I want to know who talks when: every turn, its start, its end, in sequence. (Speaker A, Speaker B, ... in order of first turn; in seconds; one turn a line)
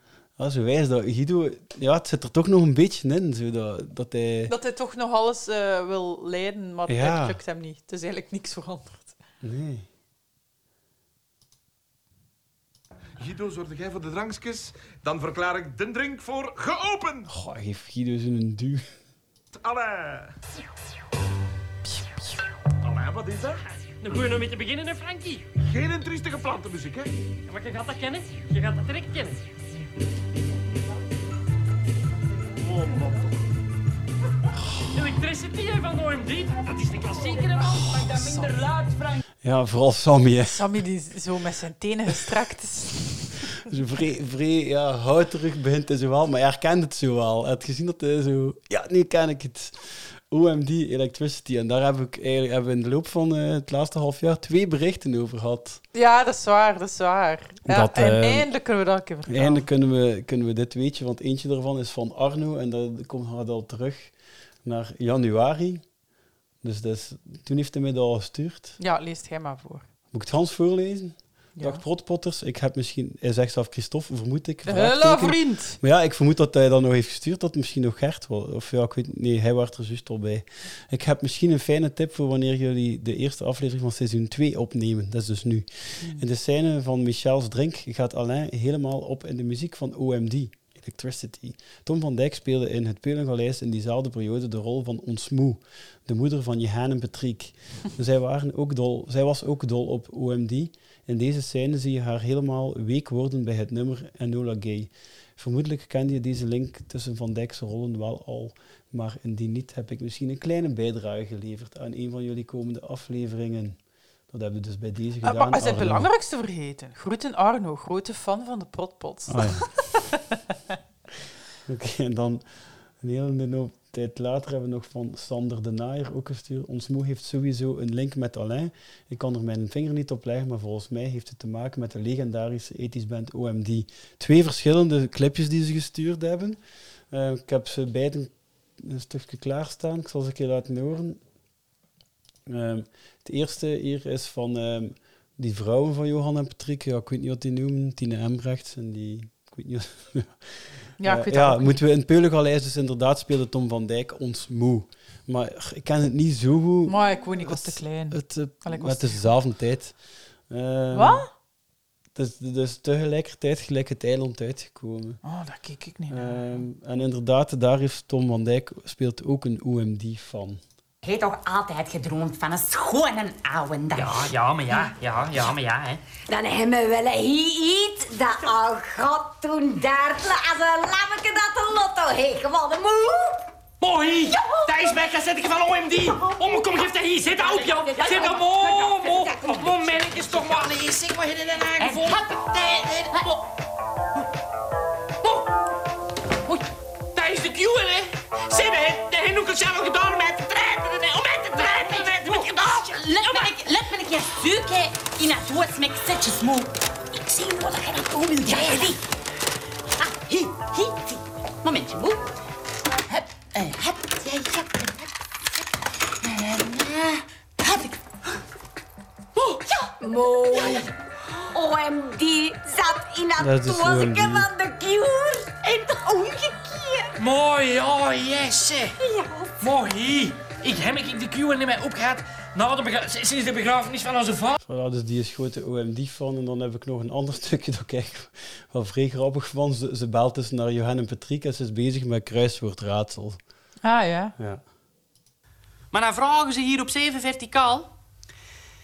Speaker A: 0.4-4.5
Speaker B: 4.5-9.2
Speaker A: 6.9-7.4
Speaker A: 9.4-9.9
Speaker C: 13.2-17.3
Speaker A: 17.3-18.9
Speaker C: 19.5-20.3
Speaker C: 22.8-23.6
Speaker D: 24.0-25.4
Speaker C: 25.6-27.1
Speaker D: 27.5-29.4
Speaker C: 32.7-33.2
Speaker D: 34.9-39.2
Speaker B: 38.0-38.6
Speaker A: 39.4-40.7
Speaker B: 40.4-43.6
Speaker A: 43.6-55.8
Speaker B: 55.9-59.6
Speaker A: 57.6-58.5
Speaker A: 59.3-64.1
Speaker A: 64.6-65.8
Speaker A: 66.6-68.8
Speaker B: 68.8-69.8
Speaker A: 70.1-113.8
Speaker B: 71.6-71.8
Speaker B: 74.6-75.8
Speaker A: 114.3-116.1
Speaker B: 115.2-120.4
Speaker A: 119.3-119.7
Speaker A: 121.7-122.4
Speaker A: 123.0-136.6
Speaker A: 137.1-141.2
Speaker A: 142.4-150.5
Speaker B: 151.0-151.8
Speaker A: 151.0-159.9
Speaker B: 156.9-159.3
Speaker A: 160.5-161.3
Speaker B: 160.9-161.3
Speaker A: 162.1-165.2
Speaker B: 165.2-166.7
Speaker A: 166.1-170.6
Speaker E: 171.0-174.9
Speaker F: 173.9-176.0
Speaker E: 176.3-183.5
Speaker F: 183.8-193.4
Speaker E: 184.3-184.7
Speaker E: 186.1-186.7
Speaker E: 187.5-190.0
Speaker D: 188.0-188.2
Speaker E: 191.8-193.3
Speaker F: 197.1-203.5
Speaker E: 201.6-209.0
Speaker E: 210.0-212.2
Speaker E: 213.1-215.1
Speaker E: 216.2-218.0
Speaker E: 219.7-220.9
Speaker E: 221.5-227.2
Speaker A: 223.4-224.5
Speaker F: 227.2-228.9
Speaker E: 229.0-229.7
Speaker F: 229.6-234.5
Speaker A: 234.6-243.4
Speaker B: 243.8-244.3
Speaker F: 245.9-247.9